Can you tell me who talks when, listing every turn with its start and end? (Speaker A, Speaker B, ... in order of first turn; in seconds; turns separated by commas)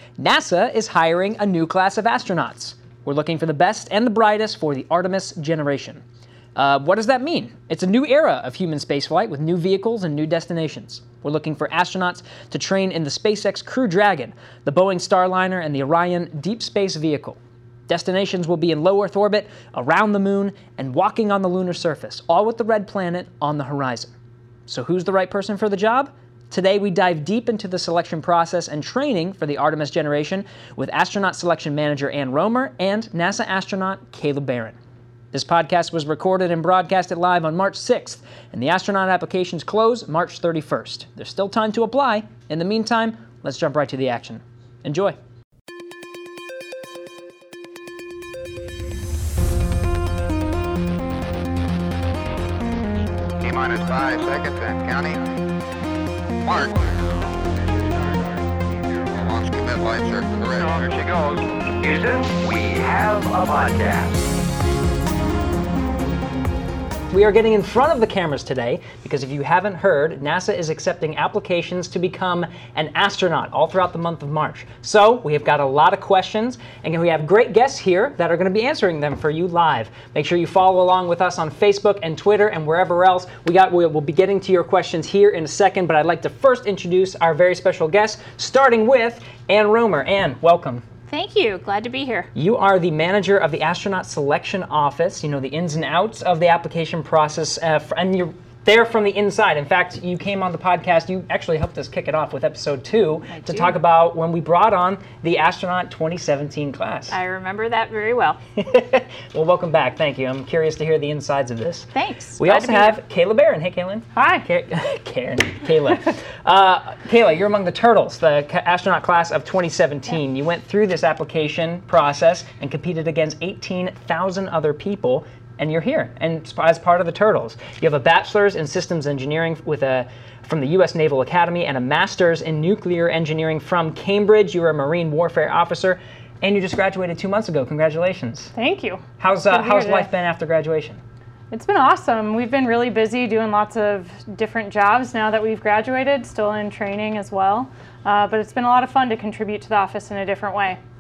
Speaker A: 0.2-6.0, Speaker A: 6.5-24.1, Speaker A: 24.7-34.8, Speaker A: 35.3-45.2, Speaker B: 53.4-55.2, Speaker B: 56.5-56.8, Speaker B: 59.0-61.4, Speaker C: 60.5-61.1, Speaker C: 61.8-64.2, Speaker A: 67.1-90.8, Speaker D: 91.1-92.3, Speaker A: 92.3-107.2, Speaker D: 103.3-103.8, Speaker D: 107.1-108.4, Speaker A: 108.6-138.5, Speaker D: 111.9-113.0, Speaker E: 114.2-114.4, Speaker E: 138.5-140.1, Speaker A: 139.2-141.0, Speaker E: 141.5-150.8